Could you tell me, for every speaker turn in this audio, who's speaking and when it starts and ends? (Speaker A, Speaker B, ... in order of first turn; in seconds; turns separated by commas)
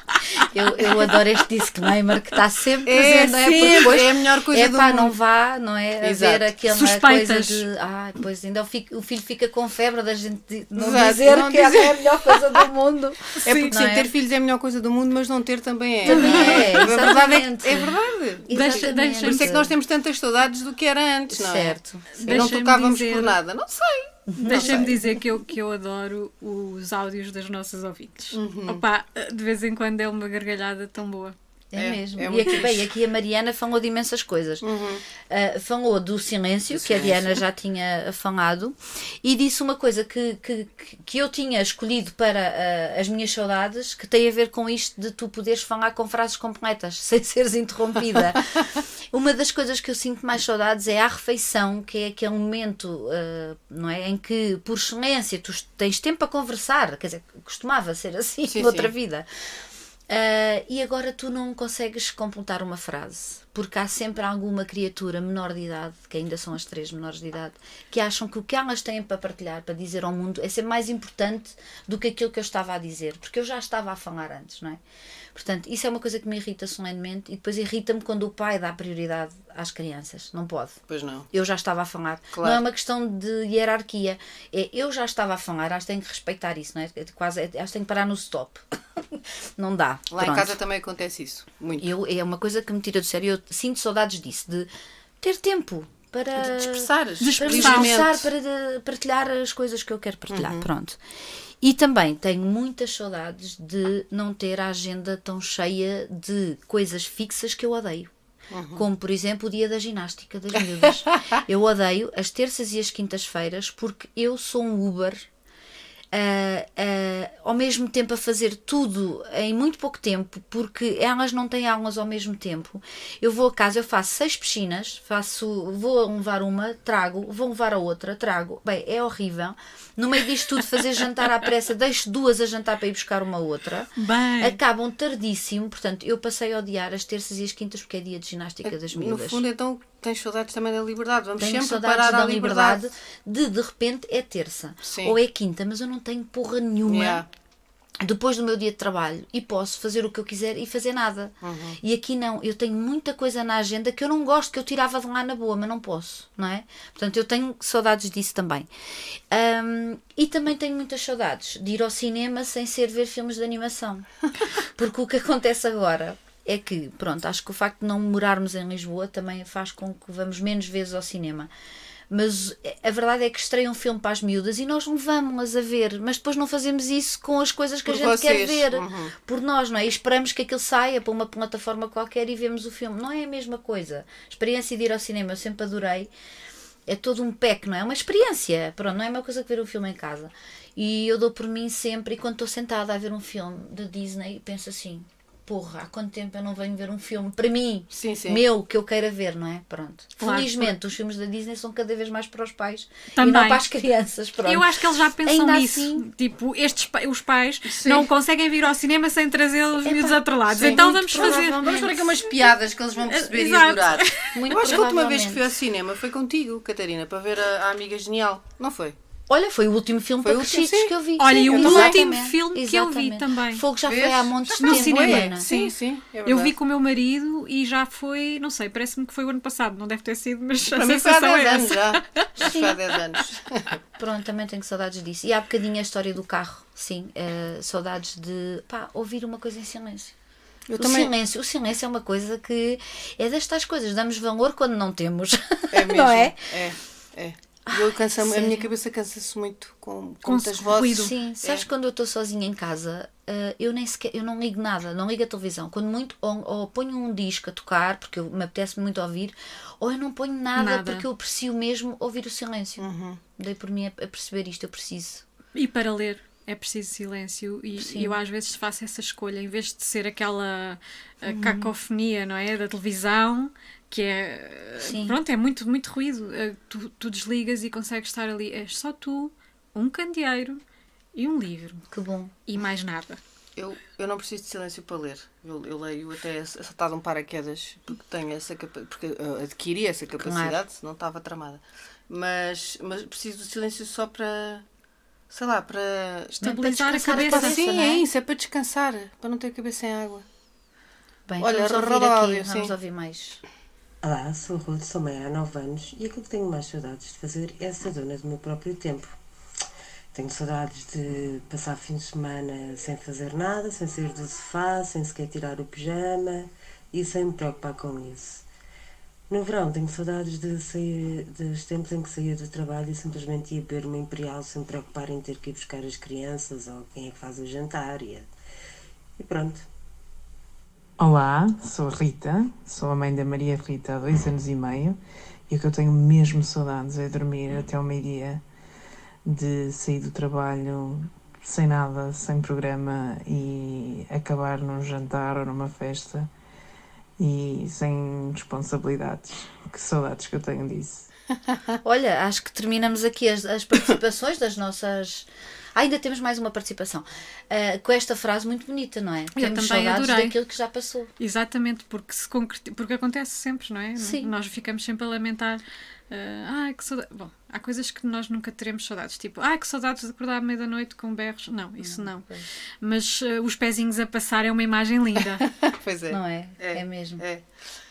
Speaker A: 0.3-14.1, Speaker B: 2.9-5.2, Speaker B: 6.0-6.5, Speaker C: 6.7-7.7, Speaker B: 10.7-12.6, Speaker C: 13.4-13.8, Speaker B: 13.4-25.1, Speaker C: 16.0-17.1, Speaker A: 16.0-19.7, Speaker C: 18.5-19.6, Speaker A: 21.3-22.5, Speaker C: 22.2-23.4, Speaker A: 24.3-25.0, Speaker C: 24.4-31.3, Speaker B: 28.3-28.8, Speaker A: 31.7-34.6, Speaker B: 31.8-32.9, Speaker B: 34.6-35.0, Speaker A: 35.3-59.3, Speaker B: 36.7-37.4, Speaker B: 58.5-58.9, Speaker A: 60.1-74.8, Speaker A: 75.3-80.8, Speaker B: 80.9-81.3, Speaker A: 81.3-88.6, Speaker B: 82.3-82.6, Speaker A: 89.6-90.5, Speaker B: 90.1-91.9, Speaker A: 91.8-94.7, Speaker A: 95.2-101.0, Speaker B: 96.3-98.3, Speaker C: 97.2-98.0, Speaker B: 100.3-100.7, Speaker A: 101.6-108.1, Speaker B: 108.5-108.8, Speaker A: 108.7-115.2, Speaker B: 111.0-111.3, Speaker A: 116.1-139.4, Speaker C: 134.0-134.6, Speaker B: 138.6-142.8, Speaker A: 141.4-147.2, Speaker B: 144.8-145.2, Speaker B: 146.8-147.3, Speaker A: 148.0-164.1, Speaker B: 151.4-151.8, Speaker A: 164.6-171.5, Speaker A: 172.1-186.1, Speaker B: 177.9-179.1, Speaker A: 186.9-204.7, Speaker B: 197.9-198.4, Speaker C: 200.2-200.8, Speaker C: 203.1-203.6, Speaker C: 204.4-212.3, Speaker A: 205.2-206.1, Speaker B: 207.7-208.1, Speaker A: 209.8-211.8, Speaker B: 210.5-218.9, Speaker C: 213.0-214.4, Speaker A: 214.3-215.4, Speaker A: 219.3-225.4, Speaker B: 220.2-222.0, Speaker C: 221.2-223.6, Speaker B: 223.8-226.5, Speaker C: 224.6-232.4, Speaker B: 230.7-233.8, Speaker A: 232.4-232.8, Speaker A: 234.0-240.1, Speaker B: 240.7-241.1, Speaker A: 240.8-246.4, Speaker B: 245.7-251.7, Speaker A: 247.7-248.7, Speaker C: 250.2-251.1, Speaker A: 250.9-265.2, Speaker C: 260.5-261.1, Speaker B: 262.8-263.2, Speaker C: 265.5-280.6, Speaker A: 267.8-268.1, Speaker A: 271.2-271.7, Speaker A: 274.8-275.2, Speaker C: 281.1-281.8, Speaker A: 281.9-282.3, Speaker C: 282.4-283.2, Speaker B: 283.6-294.6, Speaker A: 290.2-290.6, Speaker B: 295.3-300.2, Speaker C: 296.4-297.8, Speaker A: 297.0-298.0, Speaker A: 301.3-303.4, Speaker B: 301.4-302.7, Speaker D: 304.0-309.1, Speaker D: 310.1-318.4, Speaker D: 319.3-328.3, Speaker D: 329.2-329.6, Speaker E: 331.0-335.0, Speaker E: 335.5-338.4, Speaker E: 339.2-346.3, Speaker E: 347.2-351.1, Speaker A: 351.8-361.1, Speaker C: 359.3-360.4, Speaker C: 361.2-372.3, Speaker A: 364.0-364.3, Speaker A: 371.8-372.5, Speaker C: 372.8-375.4, Speaker B: 375.5-377.4, Speaker A: 376.1-377.2